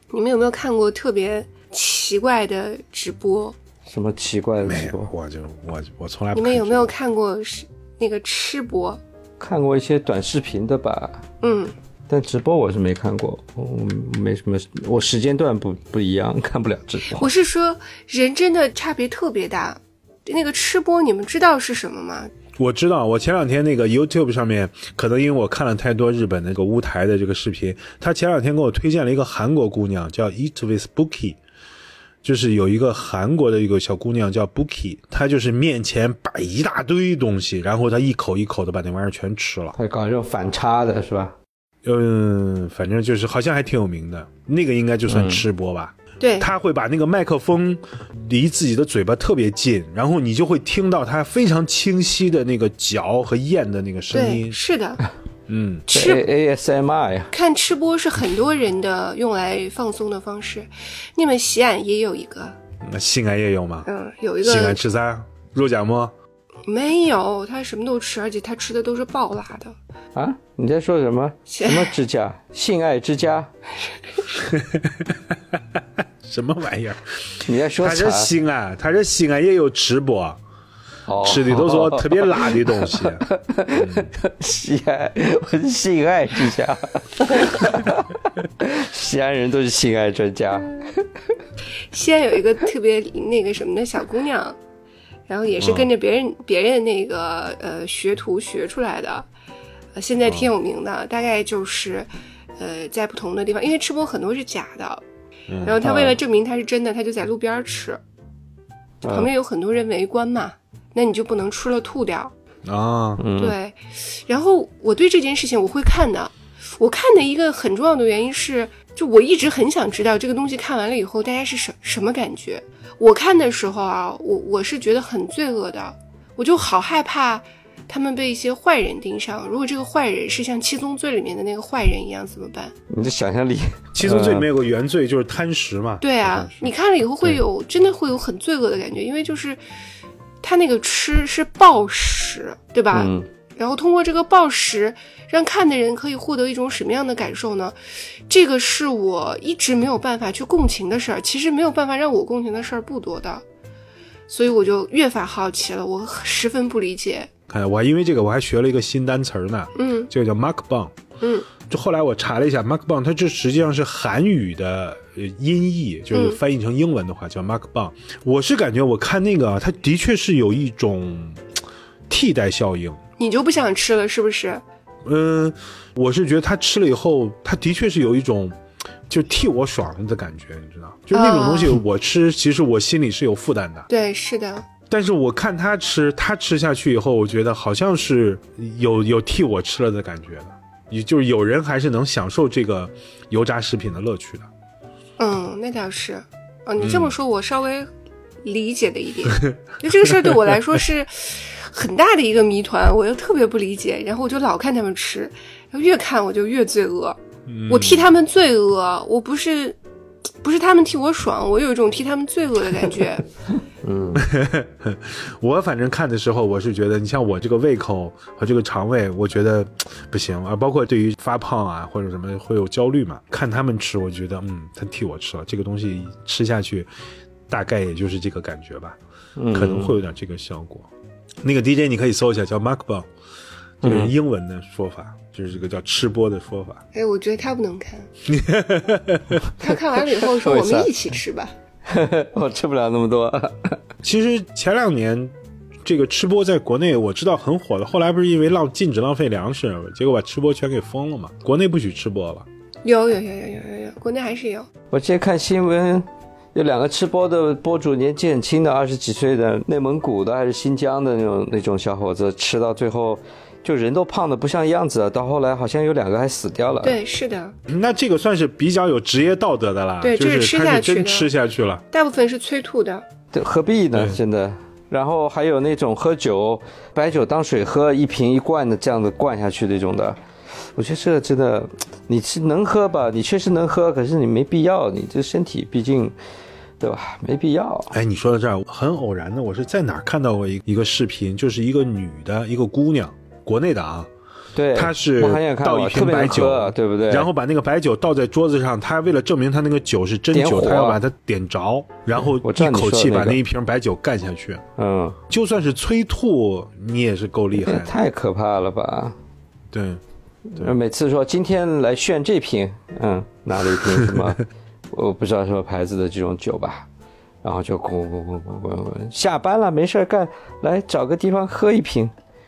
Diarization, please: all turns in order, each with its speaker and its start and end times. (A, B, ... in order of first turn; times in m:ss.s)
0:00.1-0:03.6 A
0:03.9-0:05.1 B
0:04.6-0:06.9 C
0:06.3-0:09.0 A
0:09.4-0:11.2 B
0:11.4-0:11.7 A
0:12.1-0:17.3 B
0:17.1-0:22.3 A
0:22.6-0:31.4 C
0:32.2-0:39.7 C
0:39.8-0:41.3 B
0:41.8-0:54.6 C
0:45.1-0:45.4 B
0:46.2-0:46.5 A
0:54.1-0:55.0 A
0:55.5-0:55.9 C
0:55.9-0:57.3 B
0:55.9-0:56.2 A
0:57.3-1:02.6 A
1:02.8-1:03.9 C
1:03.8-1:04.8 A
1:04.4-1:06.1 C
1:06.7-1:09.7 A
1:10.1-1:13.5 B
1:11.5-1:12.0 A
1:14.4-1:20.4 C
1:17.4-1:18.3 B
1:21.1-1:31.1 B
1:21.2-1:24.1 C
1:31.9-1:34.6 A
1:35.3-1:39.3 A
1:35.6-1:35.9 C
1:40.0-1:45.0 A
1:45.5-1:45.8 C
1:45.6-1:48.0 A
1:45.8-1:46.2 B
1:49.0-1:49.3 B
1:49.1-1:52.3 A
1:52.6-1:53.2 C
1:53.2-1:53.6 B
1:53.4-2:12.7 A
2:12.9-2:14.5 B
2:13.9-2:16.7 C
2:16.0-2:19.6 A
2:20.4-2:27.8 A
2:22.9-2:23.3 B
2:28.3-2:33.4 A
2:34.3-2:37.3 A
2:37.5-2:40.9 C
2:39.8-2:40.1 A
2:41.2-2:41.5 A
2:41.6-2:51.5 C
2:46.1-2:46.4 A
2:52.1-2:53.0 C
2:53.2-2:54.6 A
2:55.0-3:03.9 C
3:01.1-3:01.8 A
3:03.9-3:04.7 A
3:04.9-3:14.5 C
3:15.2-3:17.9 A
3:16.8-3:17.1 C
3:18.4-3:27.2 A
3:20.1-3:20.4 C
3:27.5-3:28.1 C
3:27.7-3:29.8 A
3:30.4-3:33.3 A
3:33.8-3:34.2 B
3:34.1-3:46.9 C
3:47.5-3:49.0 C
3:49.4-3:49.9 B
3:49.5-3:50.9 C
3:51.4-3:53.1 C
3:53.8-3:56.8 C
3:53.8-3:54.1 B
3:56.9-3:58.1 A
3:58.2-3:59.4 C
3:59.6-4:01.5 A
4:00.3-4:00.9 B
4:01.8-4:03.8 B
4:04.0-4:05.3 C
4:05.8-4:12.4 C
4:12.8-4:14.7 A
4:14.9-4:27.0 B
4:26.8-4:27.6 A
4:27.7-4:31.8 C
4:30.0-4:31.3 A
4:31.9-4:33.0 A
4:33.3-4:40.2 B
4:33.9-4:34.2 C
4:40.7-4:46.1 B
4:46.8-4:47.9 B
4:47.9-4:54.1 C
4:54.5-4:57.3 B
4:54.7-5:04.6 C
5:00.3-5:01.0 B
5:02.4-5:03.4 B
5:04.8-5:05.2 B
5:05.3-5:07.9 C
5:07.6-5:09.2 B
5:09.7-5:10.0 C
5:10.5-5:16.9 B
5:17.4-5:22.1 B